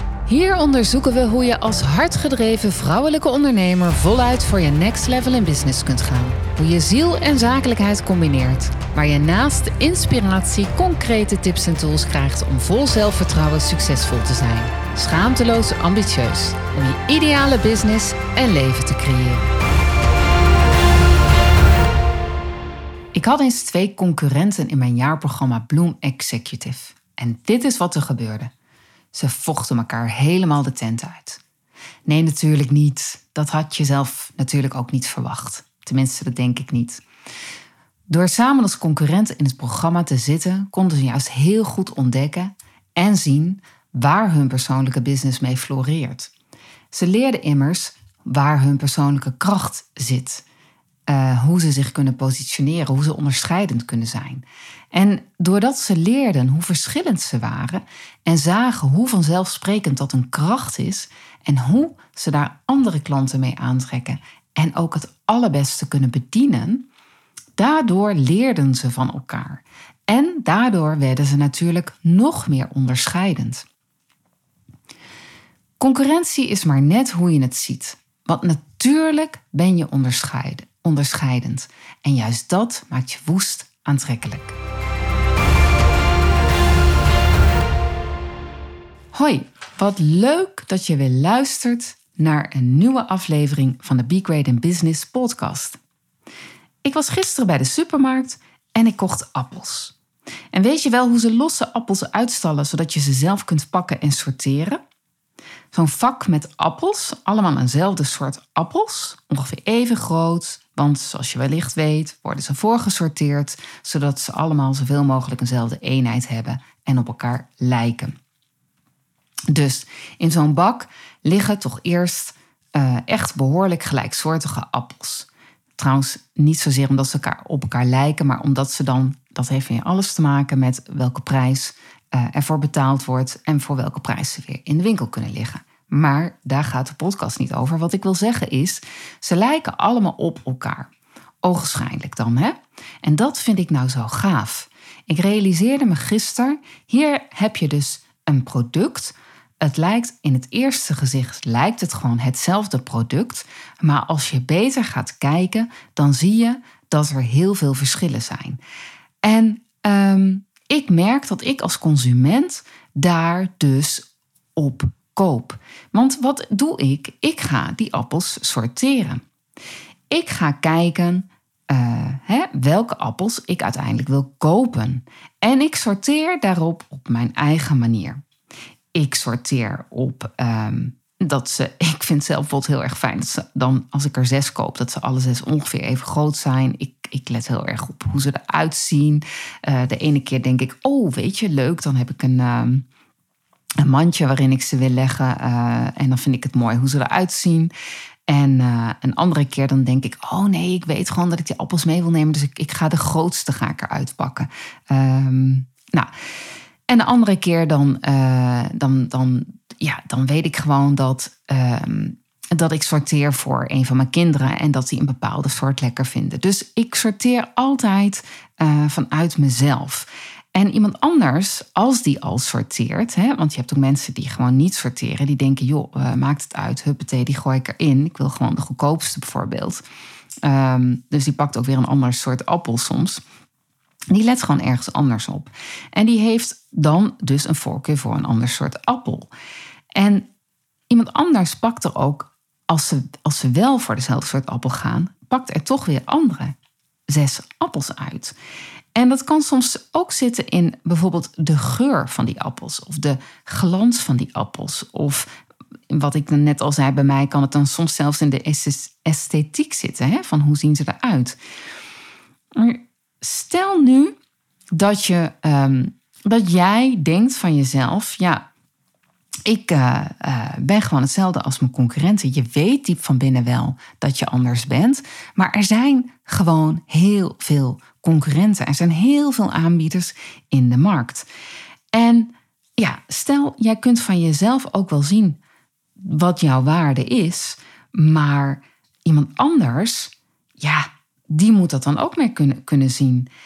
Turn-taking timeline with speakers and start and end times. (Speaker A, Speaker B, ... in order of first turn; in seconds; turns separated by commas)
Speaker A: 0.2-19.4, Speaker A: 23.1-28.5, Speaker A: 29.1-31.4, Speaker A: 32.0-37.0, Speaker A: 38.1-46.3, Speaker A: 46.9-50.4, Speaker A: 51.1-66.9, Speaker A: 67.6-73.6, Speaker A: 75.8-84.5, Speaker A: 89.1-95.8, Speaker A: 96.8-99.9, Speaker A: 100.5-104.8, Speaker A: 105.7-118.1, Speaker A: 119.5-140.9, Speaker A: 141.4-158.6, Speaker A: 159.2-169.2, Speaker A: 170.1-178.2, Speaker A: 178.9-192.8, Speaker A: 193.8-197.7, Speaker A: 198.3-206.1, Speaker A: 206.9-229.8, Speaker A: 230.4-233.2, Speaker A: 234.1-239.3, Speaker A: 239.9-240.3, Speaker A: 240.9-246.6, Speaker A: 247.1-248.3, Speaker A: 248.9-255.3, Speaker A: 255.9-261.4, Speaker A: 262.5-264.1, Speaker A: 264.7-268.4, Speaker A: 269.4-281.3, Speaker A: 281.9-285.4, Speaker A: 286.0-293.3